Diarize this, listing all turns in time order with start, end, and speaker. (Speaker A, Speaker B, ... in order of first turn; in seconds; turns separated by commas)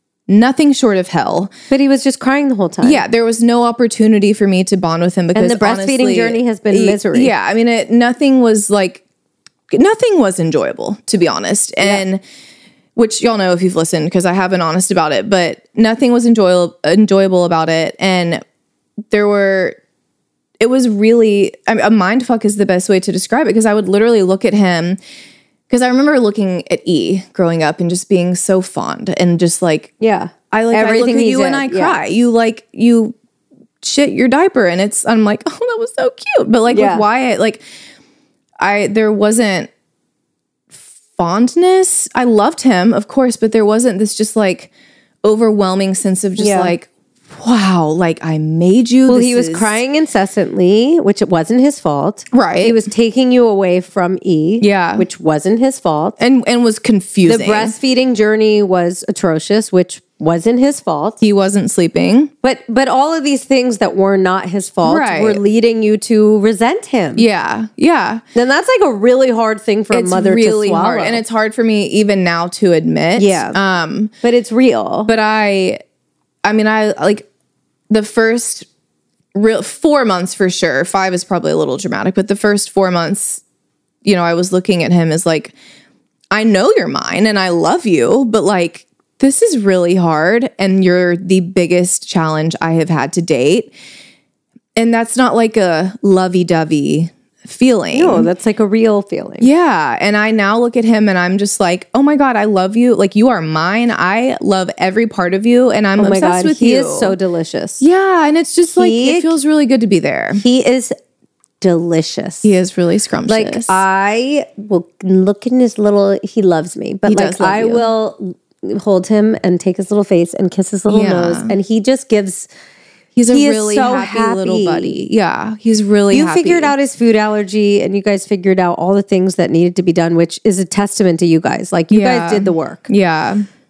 Speaker A: 0.3-1.5, Speaker B: 1.7-3.0, Speaker A: 2.8-9.0, Speaker B: 5.3-7.3, Speaker A: 9.7-12.2, Speaker A: 13.0-18.4, Speaker A: 19.1-19.8, Speaker A: 20.6-25.0, Speaker A: 25.7-29.9, Speaker B: 30.0-32.0, Speaker A: 30.5-33.1, Speaker A: 33.8-37.6, Speaker B: 36.7-37.0, Speaker A: 38.6-39.7, Speaker A: 40.8-44.7, Speaker A: 45.2-49.8, Speaker B: 46.4-46.8, Speaker B: 49.1-56.2, Speaker A: 52.3-52.8, Speaker A: 54.6-55.1, Speaker A: 56.2-57.8, Speaker B: 57.3-61.2, Speaker A: 61.2-62.3, Speaker B: 62.4-67.2, Speaker A: 64.8-65.4, Speaker A: 67.2-68.2, Speaker B: 68.3-71.2, Speaker A: 69.9-74.1, Speaker B: 73.2-73.6, Speaker B: 74.2-75.1, Speaker A: 75.1-75.8, Speaker A: 76.5-77.3, Speaker A: 77.9-78.7, Speaker A: 79.3-83.4, Speaker A: 84.0-85.5, Speaker A: 86.3-93.7, Speaker A: 94.8-98.3, Speaker B: 97.9-99.5, Speaker A: 99.4-107.2, Speaker B: 106.0-107.8, Speaker A: 107.8-110.4, Speaker B: 108.7-109.3, Speaker B: 110.3-111.0, Speaker B: 111.6-112.5, Speaker A: 112.4-113.8, Speaker B: 113.3-122.5, Speaker A: 117.1-117.8, Speaker A: 120.9-121.5, Speaker A: 123.2-126.7, Speaker B: 123.3-125.0, Speaker B: 126.1-132.8, Speaker A: 131.9-133.5